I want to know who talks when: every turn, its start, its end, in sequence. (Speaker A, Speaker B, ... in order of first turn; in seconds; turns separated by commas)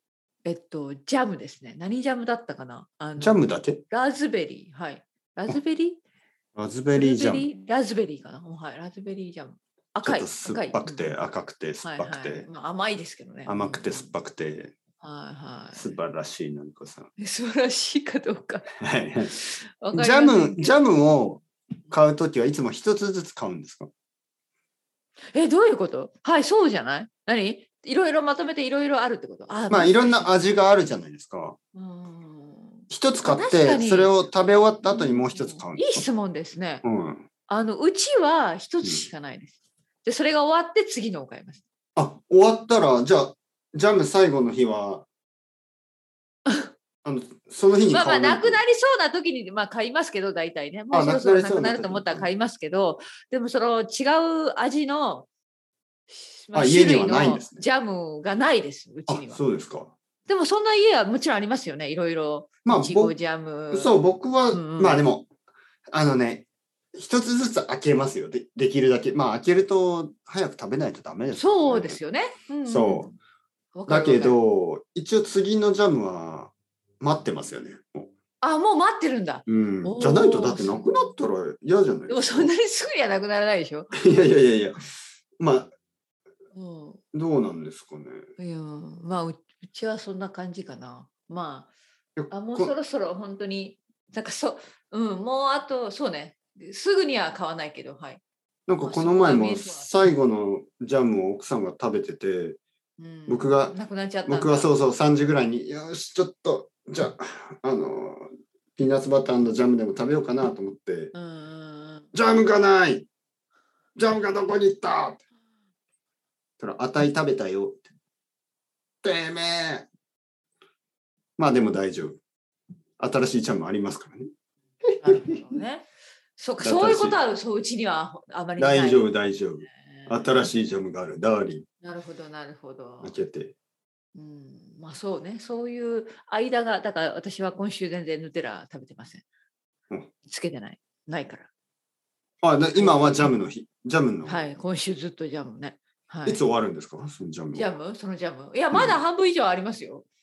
Speaker A: 0.5-6.0, Speaker B: 3.2-3.8, Speaker B: 6.5-7.5, Speaker A: 7.0-11.1, Speaker B: 10.0-12.5, Speaker A: 11.8-14.1, Speaker B: 13.5-14.7, Speaker A: 15.0-16.0, Speaker B: 15.8-17.1, Speaker A: 17.2-18.7, Speaker B: 18.8-19.4, Speaker A: 19.2-20.8, Speaker B: 19.9-23.9, Speaker A: 25.3-30.3, Speaker B: 29.7-31.6, Speaker A: 31.7-34.2, Speaker B: 32.9-36.0, Speaker A: 34.9-36.9, Speaker B: 36.8-37.3, Speaker A: 37.5-41.6, Speaker B: 42.0-45.1, Speaker B: 47.0-48.6, Speaker A: 47.9-55.3, Speaker B: 50.9-52.3, Speaker A: 56.1-59.4, Speaker B: 56.5-57.6, Speaker B: 59.1-60.0, Speaker A: 60.3-64.0, Speaker B: 62.6-63.1, Speaker B: 63.7-65.3, Speaker A: 64.5-65.0, Speaker B: 65.9-72.0, Speaker A: 71.3-73.2, Speaker B: 72.7-73.1, Speaker A: 73.8-74.4, Speaker B: 73.9-78.1, Speaker A: 78.4-81.1, Speaker B: 79.5-82.5, Speaker A: 82.1-84.0, Speaker B: 83.9-84.9, Speaker B: 85.4-85.7, Speaker A: 86.5-87.0, Speaker B: 87.1-88.3, Speaker A: 88.4-91.7, Speaker B: 92.2-92.7, Speaker A: 92.3-98.2, Speaker B: 98.7-102.6, Speaker A: 98.8-99.9, Speaker A: 103.0-104.7, Speaker B: 103.3-111.1, Speaker A: 111.1-112.1, Speaker B: 112.1-113.1, Speaker B: 114.0-115.2, Speaker B: 116.6-117.8, Speaker B: 119.0-119.9, Speaker B: 121.4-122.2, Speaker B: 123.0-124.3, Speaker A: 125.0-129.1, Speaker B: 125.0-125.5, Speaker B: 126.6-127.2, Speaker B: 128.6-131.7, Speaker A: 129.9-130.3, Speaker A: 131.8-133.2, Speaker B: 133.0-133.5, Speaker A: 134.2-139.2, Speaker A: 140.2-141.5, Speaker B: 142.4-144.4, Speaker A: 142.8-143.3, Speaker A: 144.3-146.4, Speaker B: 146.3-147.7, Speaker A: 147.5-150.1, Speaker B: 148.7-149.0